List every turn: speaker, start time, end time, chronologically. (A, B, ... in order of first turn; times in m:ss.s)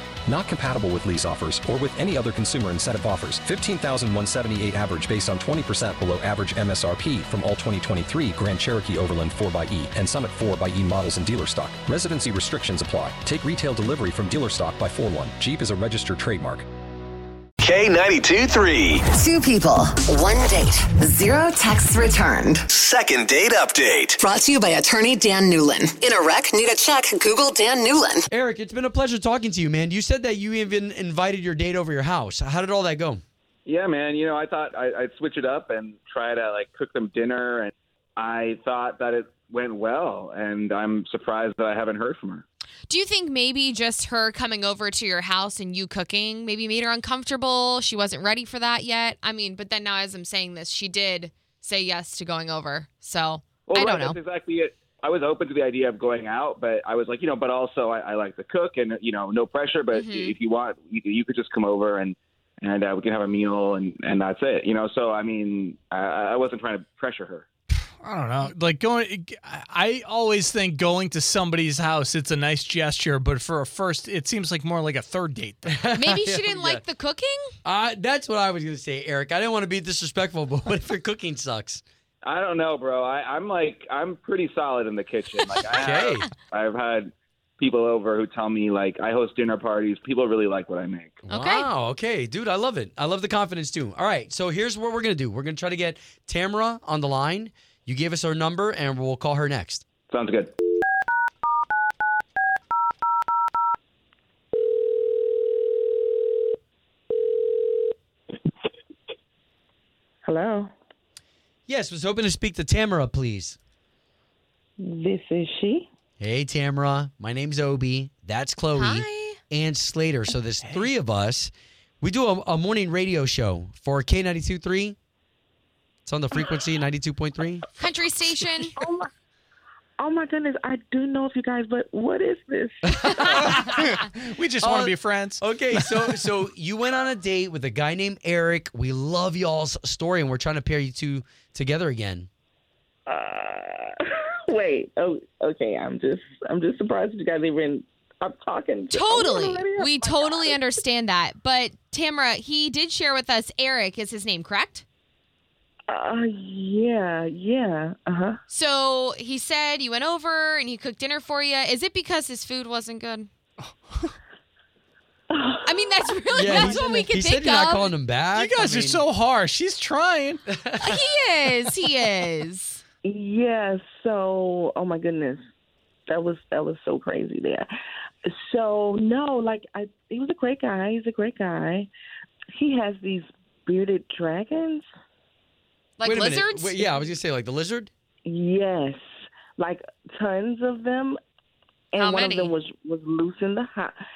0:00.3-0:16.6 A
0:17.6-0:19.0 B
0:19.1-0:22.6 C
0:22.7-0:24.2 B
0:24.2-0:28.2 C
0:28.3-0:33.2 D
0:33.6-0:42.4 E
0:42.9-0:54.2 F
0:53.7-1:07.4 E
0:59.9-1:00.3 F
1:08.0-1:15.8 G
1:15.8-1:16.8 D
1:15.9-1:17.5 F
1:17.6-1:21.8 D
1:22.2-1:31.2 E
1:25.7-1:26.2 D
1:31.3-1:31.7 F
1:31.3-1:39.8 D
1:40.1-1:40.5 E
1:50.2-1:50.7 H
1:51.7-1:53.6 D
1:54.8-1:55.9 H
1:56.2-2:05.0 D
1:58.7-1:59.4 F
2:06.0-2:07.7 D
2:07.8-2:08.7 F
2:08.8-2:09.1 H
2:10.0-2:13.5 H
2:12.9-2:13.5 D
2:13.4-2:16.2 G
2:14.6-2:22.3 D
2:23.1-2:30.6 H
2:28.9-2:34.8 F
2:35.9-2:38.4 H
2:38.5-2:43.3 F
2:43.7-2:44.1 G
2:45.3-2:45.8 H
2:45.6-2:47.9 F
2:46.3-2:49.0 D
2:46.4-2:47.0 H
2:48.3-2:50.4 G
2:50.8-2:52.8 F
2:53.0-2:55.4 H
2:56.1-2:57.7 H
2:58.2-3:01.9 H
3:02.5-3:04.8 H
3:06.0-3:07.0 F
3:06.0-3:07.9 D
3:08.2-3:09.0 H
3:09.6-3:11.2 H
3:11.9-3:14.0 H
3:12.0-3:12.5 F